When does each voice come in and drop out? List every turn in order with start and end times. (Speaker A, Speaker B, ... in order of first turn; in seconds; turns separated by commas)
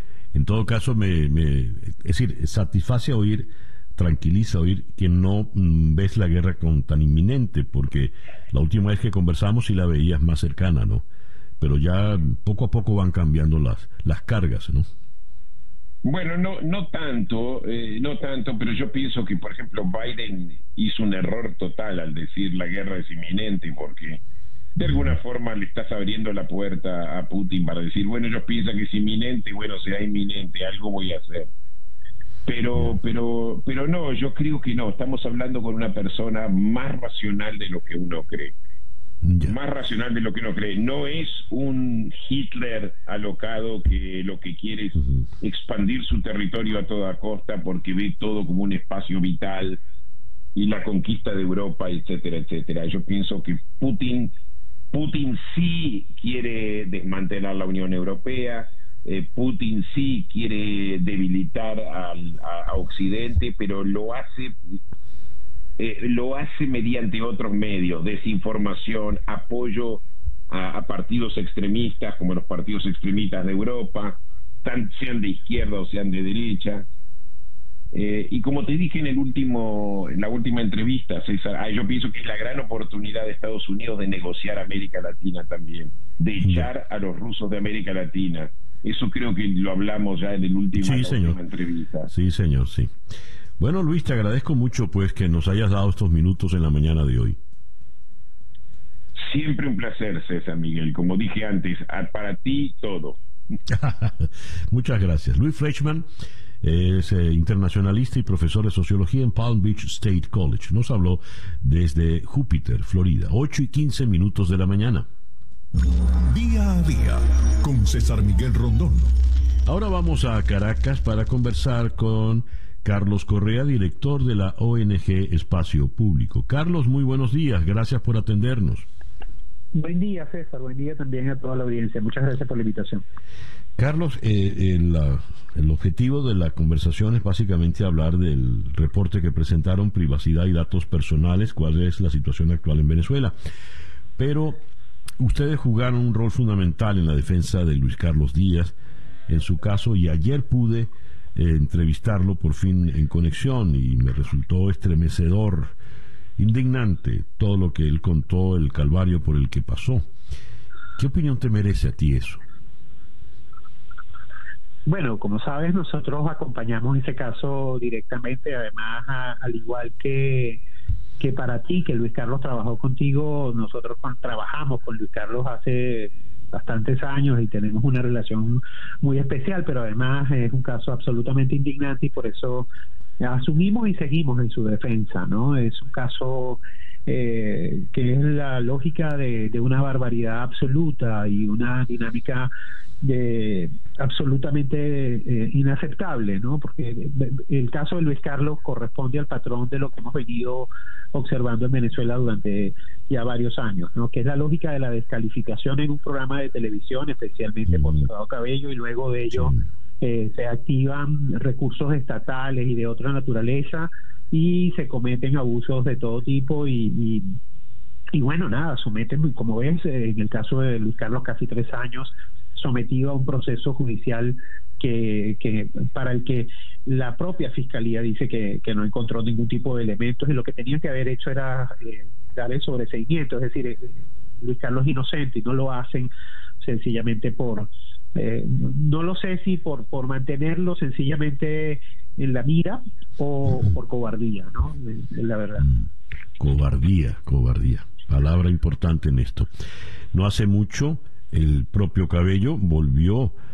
Speaker A: 0.3-11.0, Speaker A: 11.6-14.9, Speaker B: 16.0-24.2, Speaker B: 24.8-31.5, Speaker B: 32.5-38.5, Speaker A: 39.2-39.5, Speaker B: 39.4-49.8, Speaker B: 50.5-54.3, Speaker B: 54.9-64.6, Speaker B: 65.8-76.8, Speaker B: 77.9-92.1, Speaker A: 86.4-86.7, Speaker A: 90.8-91.4, Speaker A: 92.1-92.9, Speaker A: 93.6-97.4, Speaker B: 99.2-103.2, Speaker A: 103.7-106.0, Speaker A: 106.6-115.1, Speaker C: 116.2-119.2, Speaker A: 119.7-128.9, Speaker D: 129.7-133.0, Speaker A: 133.8-143.3, Speaker A: 144.2-144.7, Speaker A: 145.2-148.7, Speaker A: 149.3-155.7, Speaker A: 156.4-160.0, Speaker A: 160.9-162.4, Speaker D: 164.8-170.6, Speaker D: 171.2-182.7, Speaker D: 183.2-217.4, Speaker D: 218.1-245.7, Speaker A: 246.4-249.5, Speaker A: 250.1-253.3